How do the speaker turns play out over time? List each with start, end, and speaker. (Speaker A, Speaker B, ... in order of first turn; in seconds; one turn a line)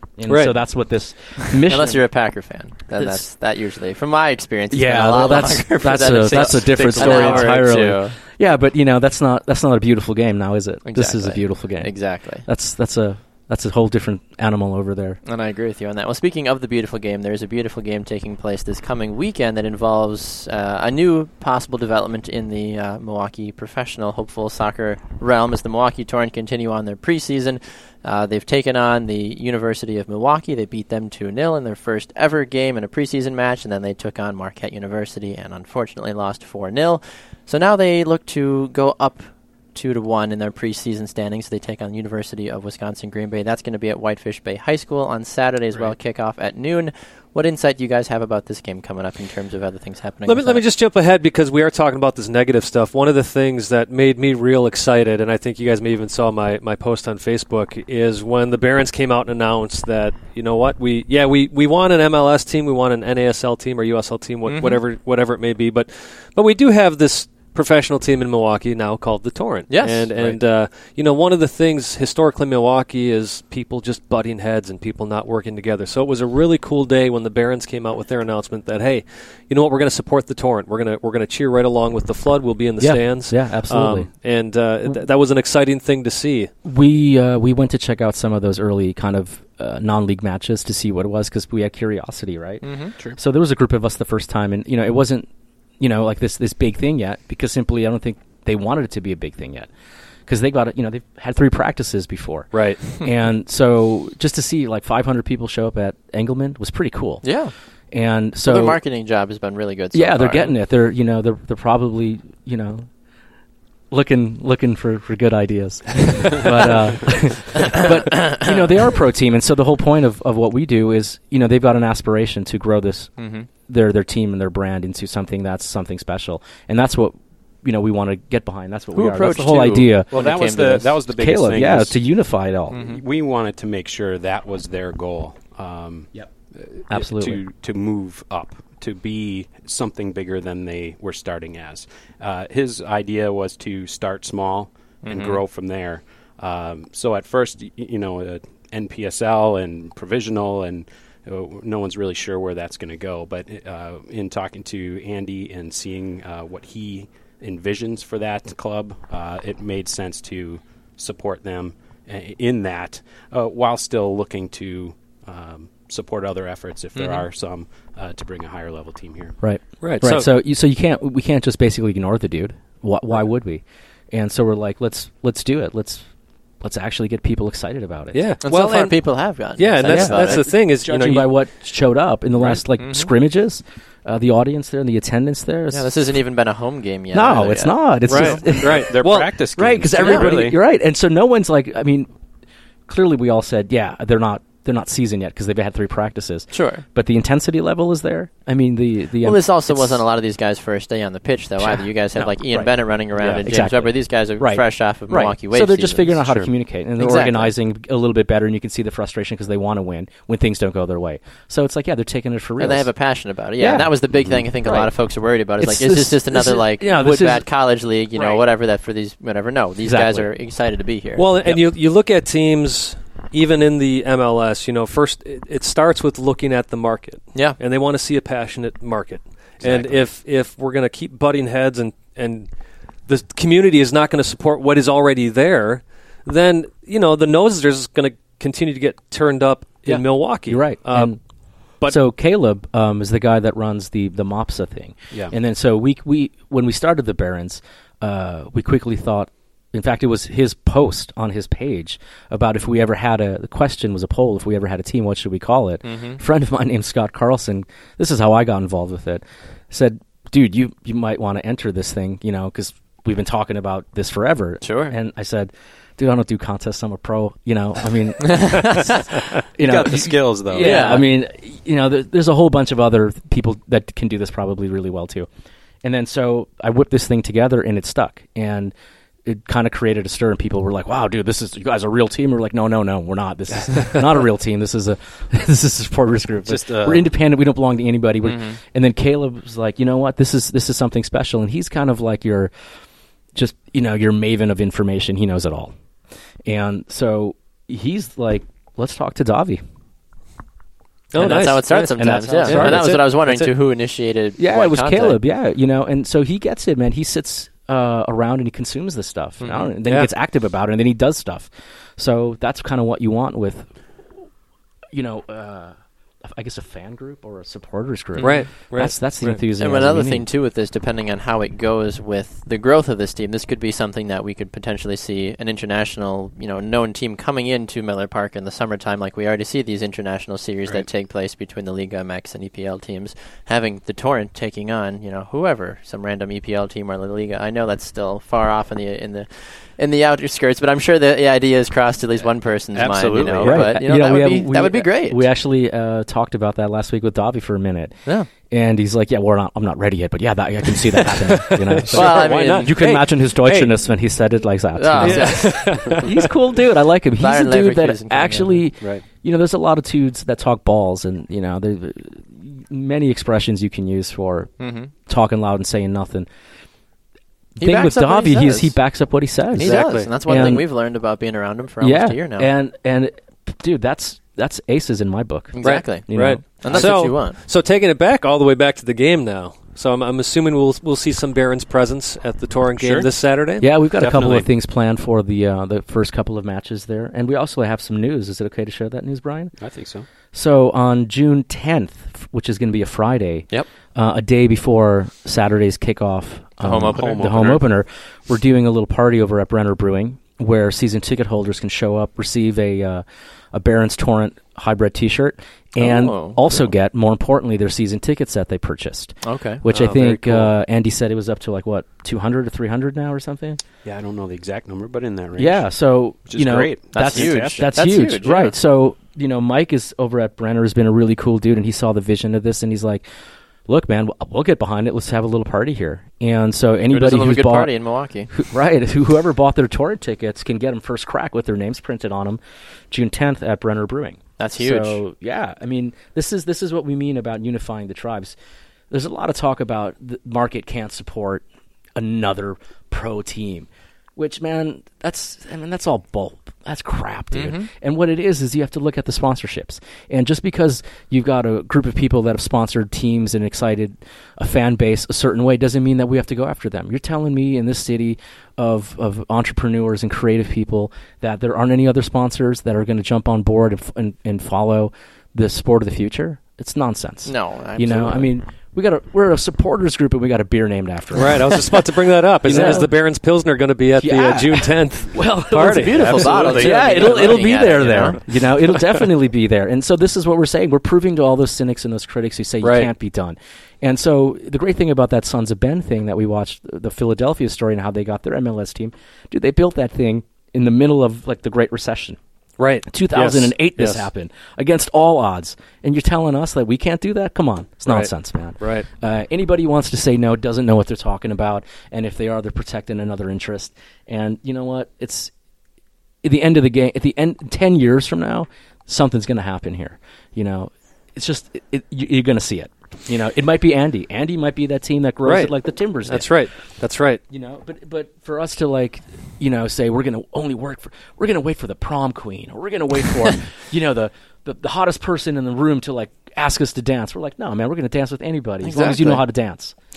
Speaker A: 0.2-2.0
Speaker B: 0.3-0.6
Speaker C: 1.6-8.2
Speaker A: 4.7-15.2
Speaker D: 6.5-7.6
Speaker B: 6.9-7.4
Speaker C: 10.8-12.5
Speaker C: 15.2-50.7
Speaker B: 50.3-86.5
Speaker C: 64.5-64.8
Speaker C: 69.7-70.1
Speaker A: 82.8-84.1
Speaker A: 86.7-95.3
Speaker C: 92.6-93.0
Speaker A: 95.8-99.7
Speaker A: 100.3-107.2
Speaker B: 102.5-102.8
Speaker C: 107.2-107.5
Speaker A: 107.9-108.8
Speaker C: 108.4-110.5
Speaker A: 109.9-112.9
Speaker A: 113.9-123.1
Speaker C: 117.5-118.5
Speaker C: 123.2-123.5
Speaker A: 123.7-130.1
Speaker C: 128.9-131.0
Speaker D: 129.9-132.0
Speaker A: 131.1-132.8
Speaker C: 132.7-133.0
Speaker D: 132.7-169.4
Speaker A: 136.9-137.4
Speaker C: 145.1-145.4
Speaker C: 166.9-167.3
Speaker A: 169.4-176.1
Speaker B: 169.8-170.3
Speaker A: 176.6-178.2
Speaker B: 178.1-181.4
Speaker C: 178.4-180.5
Speaker A: 179.8-186.1
Speaker C: 182.8-183.1
Speaker C: 185.7-188.4
Speaker A: 187.1-188.9
Speaker B: 188.1-189.3
Speaker D: 188.1-190.6
Speaker A: 189.6-192.1
Speaker C: 190.0-190.3
Speaker A: 192.9-200.0
Speaker C: 196.5-196.8
Speaker C: 199.2-206.2
Speaker A: 201.6-212.9
Speaker D: 203.2-203.6
Speaker D: 206.3-206.5
Speaker C: 207.0-207.5
Speaker C: 212.6-221.3
Speaker A: 213.6-214.9
Speaker A: 215.6-217.5
Speaker A: 219.8-220.3
Speaker B: 221.2-232.5
Speaker C: 227.3-227.6
Speaker C: 229.6-230.0
Speaker B: 233.1-241.2
Speaker A: 239.9-241.2
Speaker A: 241.8-275.3
Speaker C: 255.8-256.2
Speaker C: 264.6-265.0
Speaker C: 268.2-268.8
Speaker D: 269.6-271.1
Speaker C: 270.6-271.1
Speaker A: 275.8-278.7
Speaker A: 279.2-292.5
Speaker D: 286.4-287.1
Speaker C: 288.2-288.6
Speaker A: 293.4-295.7
Speaker A: 296.5-299.6
Speaker B: 301.1-303.5
Speaker C: 301.2-305.2
Speaker A: 301.2-303.1
Speaker A: 304.4-313.7
Speaker C: 309.4-309.7
Speaker B: 309.8-310.1
Speaker A: 314.9-315.8
Speaker A: 316.3-320.3
Speaker C: 318.2-318.4
Speaker B: 318.2-319.4
Speaker C: 319.6-345.3
Speaker D: 342.7-343.8
Speaker A: 343.4-347.9
Speaker A: 348.5-364.5
Speaker B: 351.2-353.8
Speaker C: 351.9-352.7
Speaker C: 354.8-356.1
Speaker B: 355.0-356.0
Speaker C: 357.2-358.7
Speaker C: 364.6-364.9
Speaker A: 365.1-366.3
Speaker C: 367.6-368.7
Speaker A: 367.6-370.7
Speaker C: 369.5-372.5
Speaker B: 369.6-370.1
Speaker A: 371.8-377.0
Speaker C: 375.5-376.1
Speaker B: 375.6-384.4
Speaker C: 376.6-377.4
Speaker D: 382.8-383.1
Speaker A: 383.6-389.5
Speaker D: 384.0-384.5
Speaker D: 389.6-390.1
Speaker A: 390.3-413.6
Speaker C: 396.6-397.4
Speaker D: 396.9-397.6
Speaker C: 405.8-406.5
Speaker C: 409.2-409.6
Speaker B: 409.7-410.5
Speaker D: 413.9-415.7
Speaker A: 415.4-423.0
Speaker D: 416.2-417.8
Speaker C: 416.9-418.6
Speaker A: 423.7-427.7
Speaker C: 426.9-428.3
Speaker A: 428.3-438.4
Speaker C: 434.4-435.0
Speaker A: 438.9-441.4
Speaker A: 442.0-471.8
Speaker C: 447.3-447.7
Speaker C: 467.2-468.3
Speaker B: 471.1-476.7
Speaker A: 472.4-472.9
Speaker A: 474.0-492.2
Speaker C: 475.7-478.2
Speaker D: 475.8-478.1
Speaker B: 482.6-482.9
Speaker B: 492.6-494.1
Speaker A: 492.9-505.3
Speaker B: 497.9-498.9
Speaker A: 506.2-516.3
Speaker B: 515.2-517.2
Speaker A: 517.3-529.7
Speaker C: 528.6-529.2